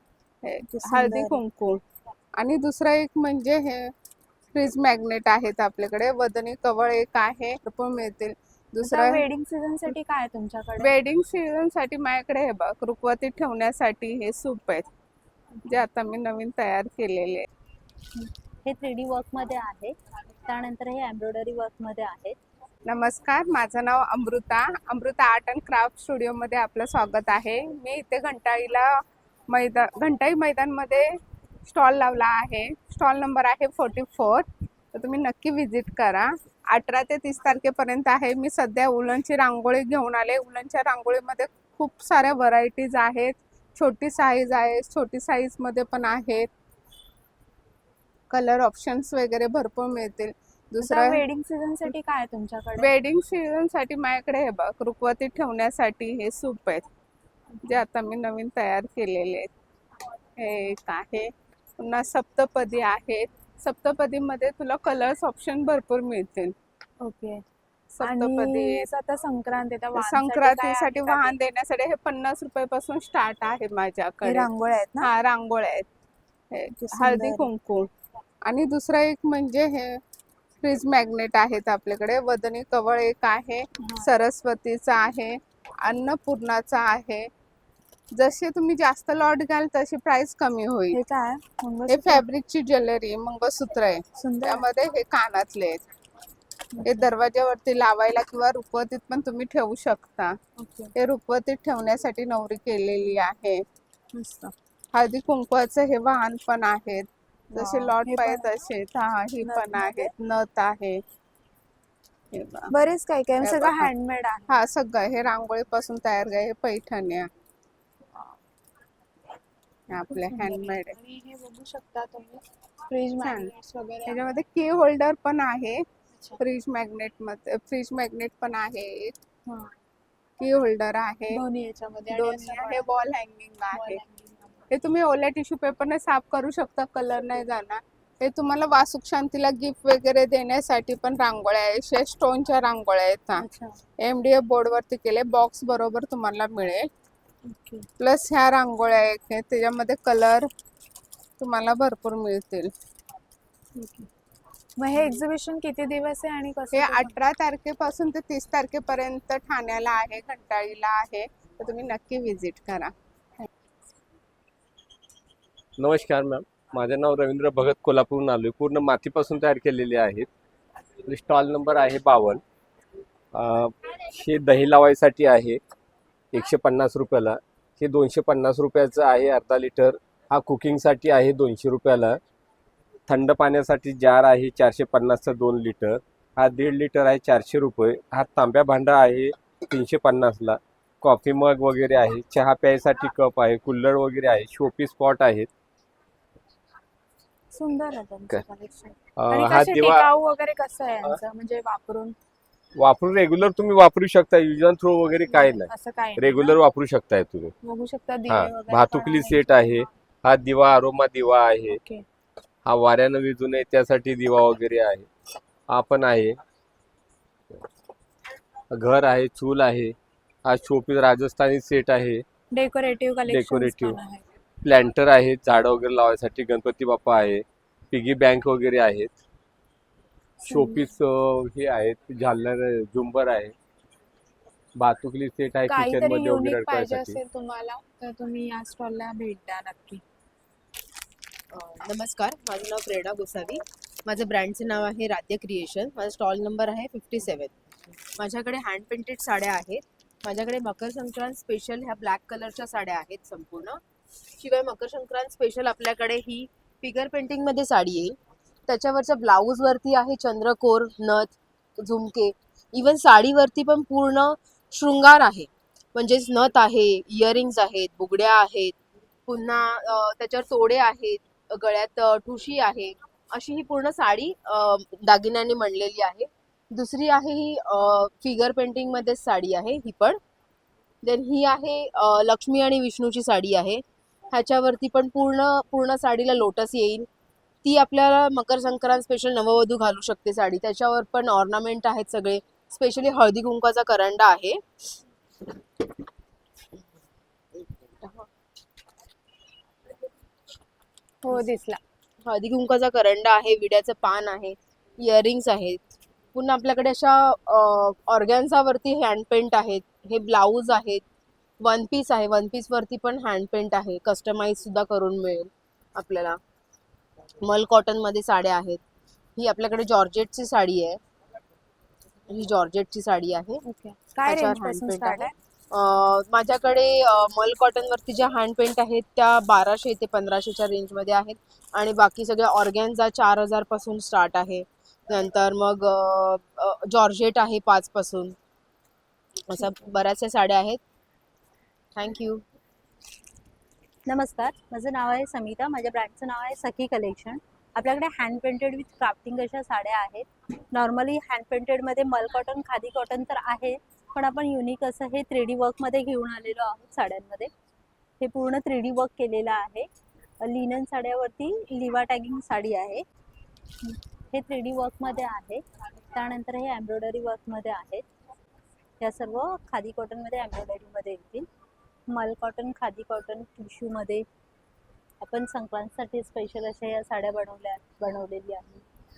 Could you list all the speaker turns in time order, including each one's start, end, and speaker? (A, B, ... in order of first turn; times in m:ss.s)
0:00.4-0:01.8 A
0:00.6-0:01.4 B
0:02.4-0:03.9 A
0:04.5-0:09.2 A
0:08.8-0:10.9 B
0:10.8-0:14.9 A
0:15.7-0:17.5 A
0:18.2-0:22.4 C
0:22.9-0:28.9 A
0:29.5-0:31.1 A
0:31.6-0:46.5 A
0:48.3-0:51.2 A
0:50.8-0:52.9 B
0:52.8-0:56.8 A
0:57.6-0:59.5 A
1:00.4-1:06.5 A
1:07.0-1:07.4 B
1:08.0-1:08.9 A
1:08.0-1:11.4 B
1:09.9-1:14.5 A
1:14.2-1:15.1 B
1:15.0-1:15.9 A
1:16.5-1:17.9 A
1:16.7-1:17.5 B
1:18.4-1:20.0 A
1:20.6-1:27.3 A
1:28.1-1:31.0 A
1:30.9-1:32.2 B
1:31.9-1:35.8 A
1:34.1-1:34.6 B
1:36.7-1:37.1 B
1:36.8-1:40.3 A
1:40.6-1:40.9 B
1:41.0-1:43.6 A
1:44.1-1:44.5 B
1:44.9-1:51.0 A
1:47.6-1:48.5 B
1:49.4-1:50.1 B
1:52.3-1:52.7 A
1:52.7-1:54.5 B
1:53.4-1:53.9 A
1:54.5-1:57.3 A
1:59.9-2:01.0 A
2:00.2-2:04.2 B
2:03.2-2:03.5 A
2:04.0-2:05.8 A
2:06.1-2:06.4 B
2:06.4-2:09.2 A
2:09.5-2:09.7 B
2:10.4-2:11.4 A
2:11.3-2:12.8 B
2:12.1-2:14.0 A
2:13.7-2:14.6 B
2:14.7-2:23.5 A
2:23.4-2:23.8 B
2:24.0-2:26.9 A
2:27.5-2:27.9 B
2:28.0-2:30.5 A
2:31.4-2:32.7 A
2:33.8-2:34.1 B
2:34.8-2:37.2 B
2:36.7-2:42.9 A
2:45.8-2:50.3 D
2:51.0-2:52.4 D
2:53.3-2:55.6 D
2:56.3-3:02.2 D
3:03.1-3:15.5 D
3:17.5-3:22.1 B
3:19.2-3:20.1 D
3:22.8-3:27.5 D
3:25.3-3:26.6 B
3:27.6-3:29.9 B
3:28.3-3:31.8 D
3:31.6-3:32.0 B
3:32.6-3:35.1 D
3:35.7-3:36.4 D
3:38.7-3:42.2 D
3:42.5-3:44.2 B
3:43.3-3:44.0 D
3:44.6-3:49.1 D
3:50.4-3:50.9 B
3:50.5-3:53.5 D
3:54.8-3:57.2 D
3:55.6-4:00.0 B
4:01.5-4:07.5 E
4:08.2-4:13.8 E
4:14.4-4:28.7 E
4:29.3-4:40.2 E
4:41.0-4:47.1 E
4:47.6-4:54.6 E
5:01.2-5:01.8 B
5:02.2-5:05.8 E
5:06.3-5:11.0 E
5:11.6-5:16.4 E
5:17.4-5:18.8 E
5:19.4-5:21.0 E
5:22.3-5:23.6 E
5:23.6-5:25.3 B
5:24.2-5:38.3 E
5:39.5-5:40.8 E
5:42.0-5:42.4 E
5:44.1-5:57.5 C
5:58.2-5:59.9 C
6:00.4-6:03.0 C
6:04.3-6:05.6 C
6:06.1-6:08.0 C
6:09.0-6:11.5 C
6:12.1-6:14.2 C
6:15.2-6:18.8 C